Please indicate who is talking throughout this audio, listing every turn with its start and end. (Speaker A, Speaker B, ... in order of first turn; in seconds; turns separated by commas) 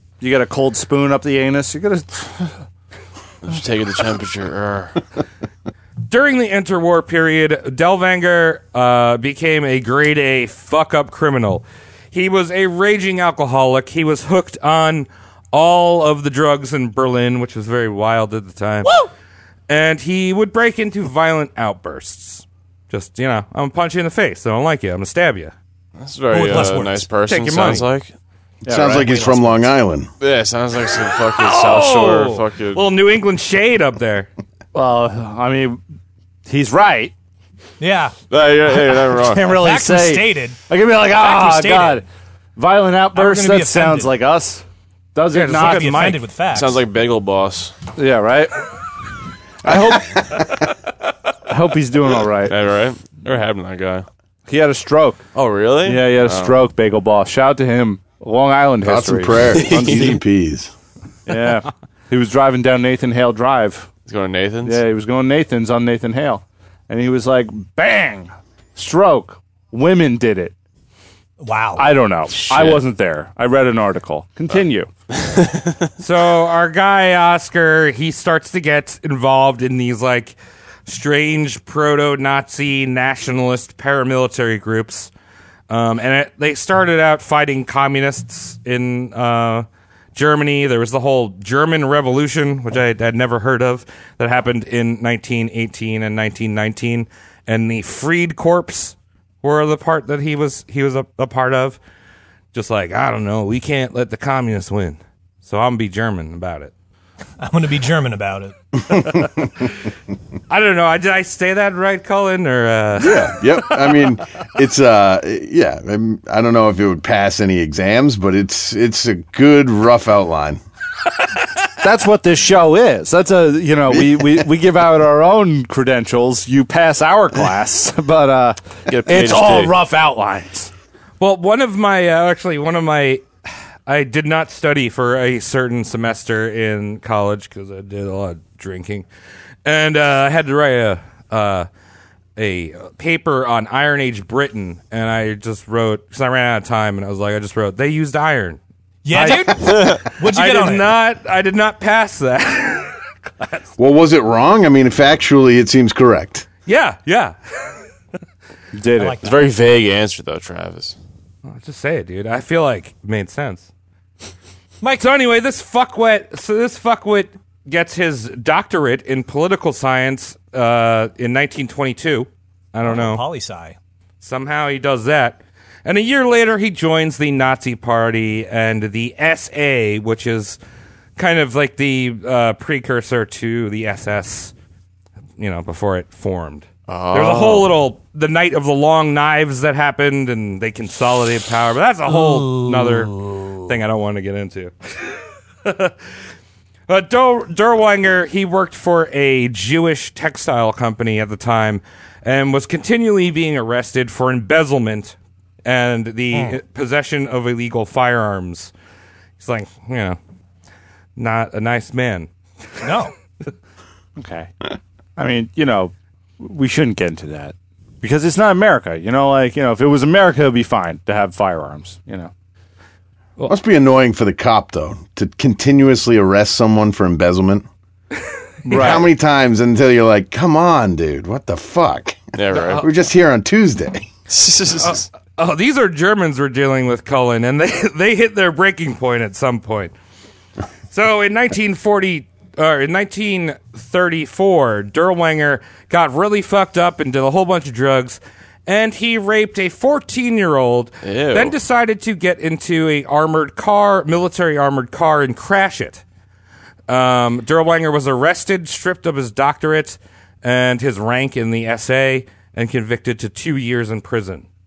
Speaker A: 0.2-2.6, Speaker B: 3.4-5.0, Speaker C: 6.1-18.9, Speaker C: 19.7-25.5, Speaker B: 26.0-28.1, Speaker D: 26.3-27.1, Speaker C: 27.3-27.9, Speaker A: 28.6-29.6, Speaker E: 28.6-30.1, Speaker B: 30.2-32.8, Speaker C: 31.3-34.3, Speaker A: 34.7-35.8, Speaker A: 36.5-37.1, Speaker D: 37.8-38.1, Speaker B: 38.3-39.5, Speaker A: 39.0-44.6, Speaker D: 39.5-40.6, Speaker D: 41.1-42.0, Speaker D: 43.1-44.2, Speaker A: 45.1-46.2, Speaker C: 45.3-46.2, Speaker D: 45.4-46.8, Speaker B: 46.5-47.7, Speaker A: 48.0-48.7, Speaker A: 49.6-50.6, Speaker A: 51.5-52.6, Speaker B: 52.5-54.1, Speaker A: 54.5-55.2, Speaker B: 55.3-56.6, Speaker A: 55.8-60.2, Speaker E: 58.8-60.7, Speaker A: 61.3-63.9, Speaker B: 64.0-64.8, Speaker A: 64.6-70.5, Speaker D: 71.4-71.9, Speaker A: 71.8-74.9, Speaker B: 72.4-72.8, Speaker C: 76.0-85.1, Speaker C: 85.7-101.8, Speaker C: 102.5-106.7, Speaker D: 107.4-108.5, Speaker C: 110.5-113.6, Speaker E: 113.0-120.6, Speaker A: 121.8-130.7, Speaker E: 123.9-124.4, Speaker B: 128.9-129.8, Speaker C: 131.2-133.2, Speaker C: 133.9-139.1, Speaker C: 139.7-141.7, Speaker C: 142.4-148.6, Speaker D: 149.1-150.9, Speaker C: 149.1-153.6, Speaker E: 153.8-156.5, Speaker C: 156.7-157.4, Speaker A: 158.8-159.2, Speaker D: 159.0-159.4, Speaker B: 159.2-161.0, Speaker C: 161.5-163.7, Speaker C: 165.0-173.2, Speaker D: 172.8-173.8, Speaker C: 174.2-180.6, Speaker C: 181.2-184.5, Speaker C: 185.4-195.9, Speaker B: 186.9-187.7, Speaker C: 196.9-208.7, Speaker C: 209.4-210.2, Speaker C: 211.2-212.3, Speaker D: 212.8-213.1, Speaker A: 214.2-222.3, Speaker E: 223.5-227.7, Speaker A: 228.7-229.1, Speaker E: 228.7-234.1, Speaker B: 232.3-232.9, Speaker B: 234.3-235.1, Speaker C: 234.8-239.9, Speaker C: 240.9-256.0, Speaker B: 251.0-251.6, Speaker C: 256.9-264.4